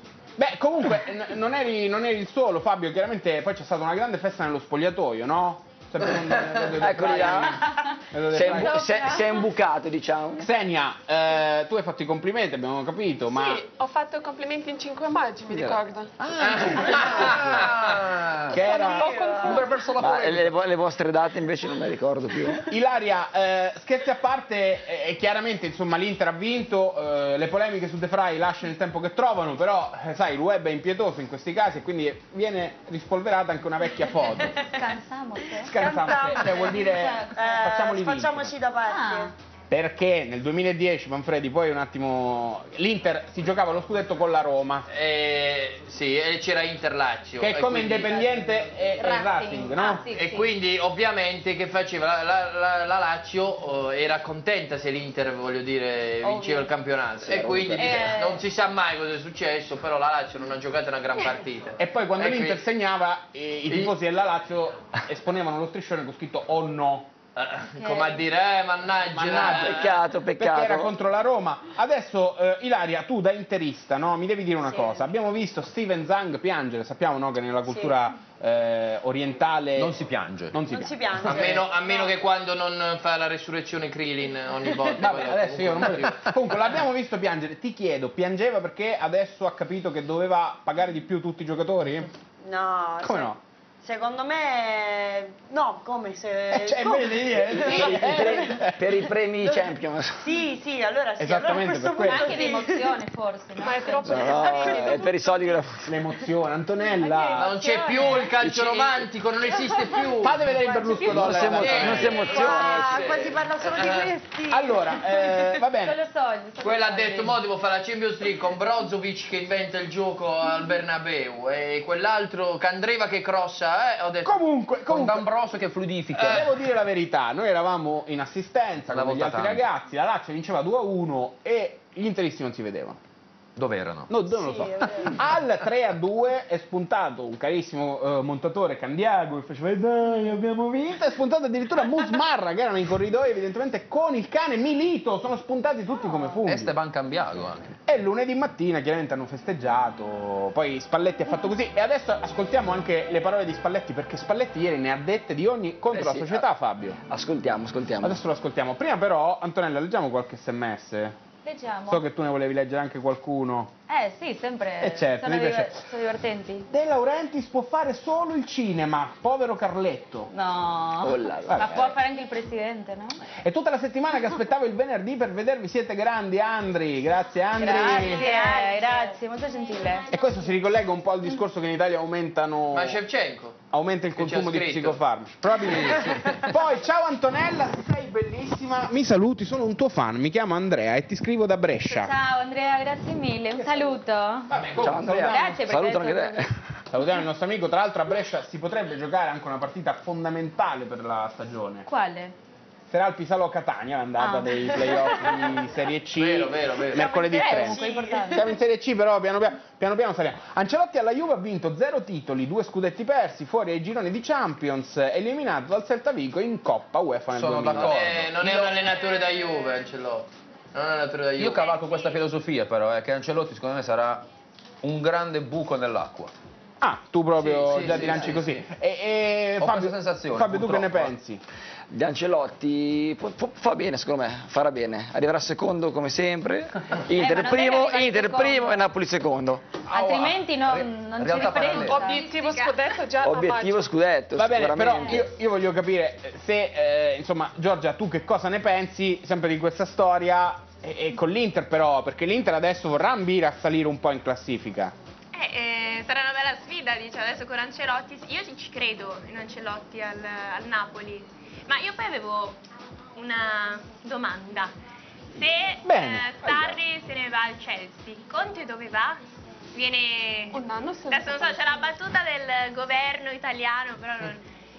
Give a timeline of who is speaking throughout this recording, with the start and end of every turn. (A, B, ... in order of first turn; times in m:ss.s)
0:00.4-0:09.0 A
0:06.7-0:07.7 B
0:07.6-0:08.0 C
0:08.3-0:10.5 B
0:08.7-0:09.2 C
0:10.4-0:13.7 A
0:13.3-0:18.0 D
0:15.5-0:17.8 B
0:16.2-0:18.6 E
0:18.5-0:19.3 A
0:18.5-0:19.9 D
0:18.6-0:19.7 F
0:19.4-0:20.5 E
0:20.0-0:22.7 B
0:22.7-0:34.6 A
0:34.6-0:37.5 C
0:35.6-0:38.5 A
0:35.7-0:39.3 F
0:38.9-0:39.3 C
0:39.7-0:44.9 A
0:44.9-0:48.2 G
0:47.4-0:50.0 A
0:48.3-0:50.5 C
0:50.1-1:02.6 G
0:56.2-0:56.7 C
0:57.2-0:58.1 B
0:57.8-0:58.4 C
1:01.8-1:07.1 A
1:03.7-1:03.9 G
1:07.4-1:10.0 G
1:07.8-1:08.2 C
1:09.1-1:20.0 A
1:09.5-1:10.9 B
1:17.6-1:17.9 F
1:19.8-1:20.6 E
1:20.5-1:21.6 A
1:20.6-1:22.1 F
1:21.2-1:26.3 G
1:25.0-1:32.1 A
1:32.4-1:38.7 F
1:33.0-1:33.4 A
1:36.5-1:38.8 A
1:37.6-1:40.3 B
1:39.4-1:43.0 F
1:41.2-1:42.4 A
1:42.0-1:44.8 C
1:43.6-1:45.5 D
1:44.0-1:45.9 B
1:45.8-1:47.6 A
1:47.2-1:48.3 C
1:47.4-1:50.4 G
1:48.4-1:49.1 B
1:50.2-1:52.3 A
1:50.6-1:55.4 F
1:51.0-1:53.4 B
1:51.4-1:54.1 G
1:54.5-1:56.0 A
1:55.8-1:57.4 C
1:56.6-2:04.3 G
2:04.2-2:05.3 A
2:04.9-2:06.5 E
2:06.2-2:13.0 A
2:08.9-2:09.6 E
2:13.6-2:14.1 E
2:14.1-2:26.7 A
2:14.3-2:15.2 F
2:26.4-2:27.8 E
2:27.8-2:37.0 A
2:35.9-2:36.4 B
2:37.0-2:38.2 B
2:38.0-2:41.2 A
2:41.4-2:42.0 C
2:41.9-2:43.7 A
2:43.9-2:46.7 C
2:44.8-2:45.8 A
2:46.7-2:50.3 A
2:50.3-2:53.2 C
2:51.0-2:51.9 B
2:51.4-2:51.9 A
2:53.4-2:58.3 A
2:57.6-3:00.1 C
2:57.6-3:00.3 F
3:00.1-3:03.0 A
3:02.7-3:03.6 G
3:03.7-3:12.1 A
3:04.2-3:05.0 G
3:05.6-3:06.6 E
3:11.9-3:14.5 C
3:13.5-3:15.6 A
3:14.8-3:16.6 B
3:15.0-3:16.5 C
3:16.9-3:21.8 A
3:21.8-3:22.3 C
3:22.9-3:38.0 A
3:24.2-3:25.3 C
3:26.2-3:27.2 G
3:26.9-3:28.5 F
3:27.0-3:28.4 C
3:37.3-3:38.8 E
3:37.7-3:41.8 G
3:41.4-3:44.2 E
3:44.8-3:46.3 E
3:46.8-3:51.4 A
3:47.4-3:48.6 E
3:47.6-3:48.5 G
3:49.6-3:51.1 E
3:51.9-3:59.7 B
3:57.1-3:58.9 C
3:59.9-4:02.0 E
3:59.9-4:02.2 C
4:01.6-4:02.8 H
4:01.7-4:03.9 D
4:03.2-4:05.3 B
4:04.4-4:14.9 A
4:15.3-4:22.6 H
4:23.1-4:24.7 H
4:25.3-4:29.2 H
4:25.8-4:26.8 A
4:29.7-4:34.4 H
4:30.5-4:31.8 D